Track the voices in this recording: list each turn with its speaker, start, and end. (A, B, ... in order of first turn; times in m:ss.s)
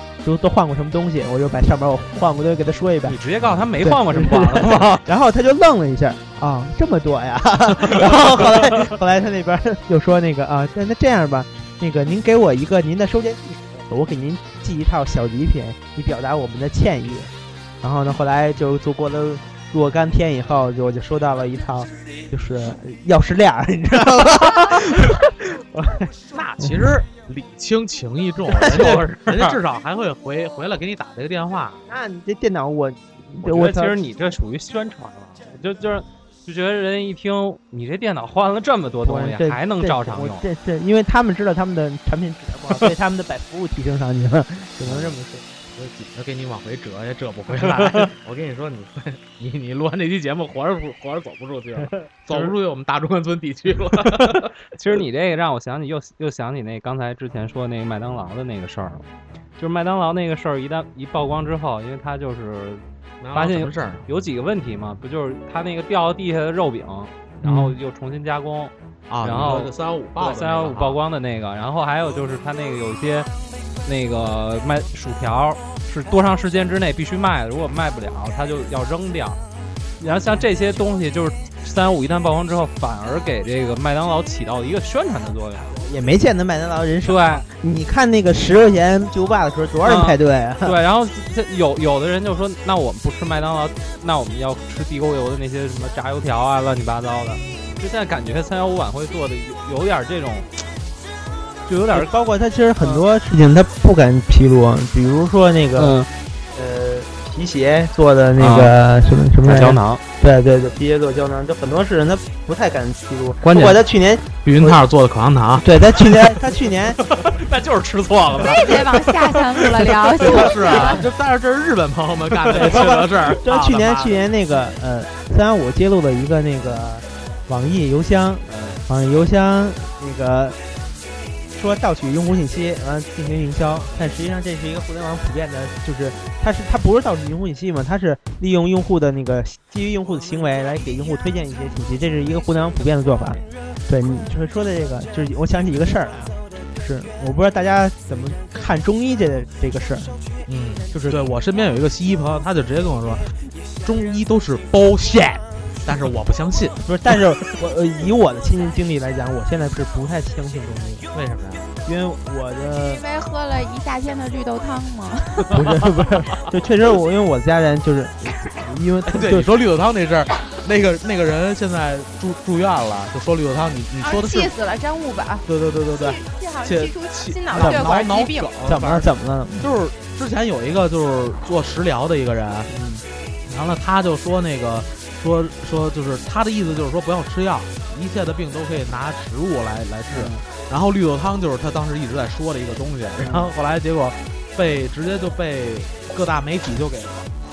0:00.2-0:03.2 A
0:03.0-0:05.0 B
0:03.8-0:17.3 A
0:17.8-0:27.0 A
0:26.3-0:31.8 C
0:28.6-0:28.9 A
0:28.7-0:29.6 B
0:31.9-0:34.0 A
0:33.4-0:40.4 B
0:39.0-0:45.5 A
0:44.8-0:45.2 C
0:45.8-0:54.5 C
0:54.1-0:59.0 B
0:59.6-1:02.8 B
1:03.2-1:04.0 C
1:03.3-1:13.3 B
1:07.4-1:07.7 C
1:09.1-1:11.0 C
1:13.8-1:19.4 B
1:20.0-1:25.8 B
1:25.8-1:30.8 A
1:27.0-1:27.4 B
1:29.8-1:40.5 B
1:41.7-1:54.3 A
1:42.8-1:43.0 B
1:45.8-1:46.1 B
1:48.4-1:48.7 B
1:49.4-1:50.0 B
1:53.4-1:53.8 B
1:54.4-1:55.7 C
1:55.6-1:57.0 A
1:57.1-2:00.5 B
1:58.4-2:01.1 D
2:00.2-2:04.2 C
2:02.4-2:02.9 B
2:02.5-2:10.6 A
2:08.5-2:08.8 B
2:11.5-2:30.2 A
2:30.5-2:33.3 C
2:30.9-2:31.3 A
2:33.8-2:36.8 C
2:36.8-2:41.1 A
2:41.1-2:41.7 C
2:41.8-2:43.0 A
2:42.8-2:45.6 D
2:45.5-2:49.5 A
2:49.0-2:54.5 C
2:54.0-2:58.5 D
2:55.4-3:02.7 C
2:57.6-2:57.9 A
2:58.6-2:59.7 A
3:02.7-3:03.0 B
3:03.5-3:17.3 C
3:10.1-3:10.4 B
3:13.2-3:13.5 B